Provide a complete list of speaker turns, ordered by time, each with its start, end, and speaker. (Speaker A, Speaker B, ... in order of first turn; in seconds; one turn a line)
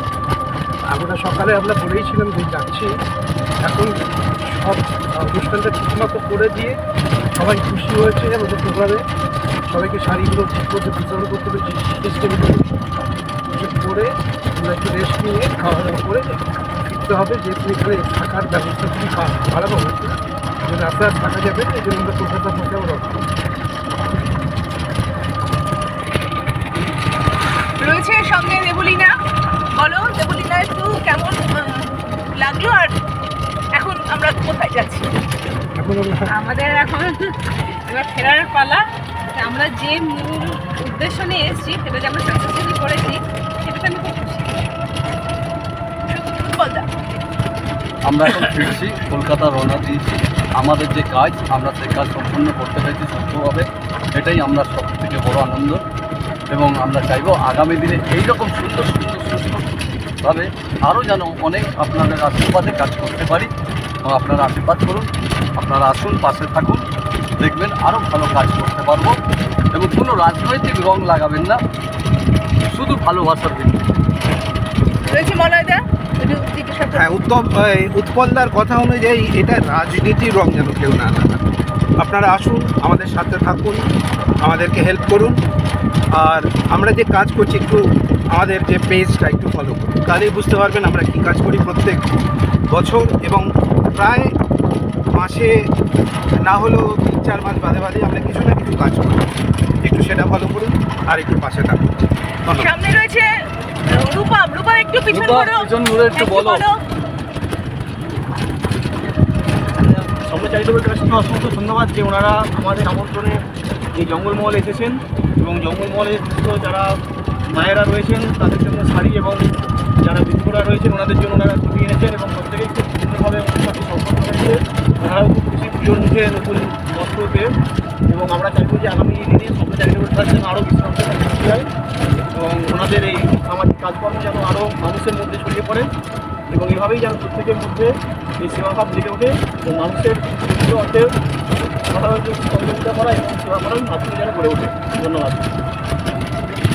Speaker A: 0.9-2.9
Speaker A: 3.6-3.9
Speaker A: 4.5-6.8
Speaker A: 7.3-9.0
Speaker A: 9.7-12.7
Speaker A: 13.5-16.4
Speaker A: 16.9-23.2
Speaker B: 27.8-29.1
Speaker B: 29.8-32.9
Speaker B: 33.8-35.1
Speaker A: 35.8-36.3
Speaker C: 36.4-37.1
Speaker C: 37.9-38.8
Speaker B: 38.0-38.8
Speaker C: 39.4-44.5
Speaker B: 46.1-46.9
Speaker D: 48.0-55.8
Speaker D: 56.5-59.7
Speaker D: 60.2-63.5
Speaker D: 64.0-66.8
Speaker D: 67.4-69.2
Speaker D: 69.7-71.6
Speaker D: 72.7-73.8
Speaker B: 75.0-77.0
Speaker E: 76.9-81.4
Speaker E: 82.0-83.8
Speaker E: 84.4-85.4
Speaker E: 86.1-87.8
Speaker E: 88.3-92.0
Speaker E: 92.7-94.3
Speaker E: 95.1-95.7
Speaker E: 96.4-99.3
Speaker E: 99.8-101.9
Speaker E: 102.4-102.7
Speaker B: 102.5-103.3
Speaker B: 103.9-106.8
Speaker D: 105.1-106.6
Speaker F: 110.2-127.5
Speaker F: 128.1-131.7
Speaker F: 132.3-135.9
Speaker F: 136.5-145.5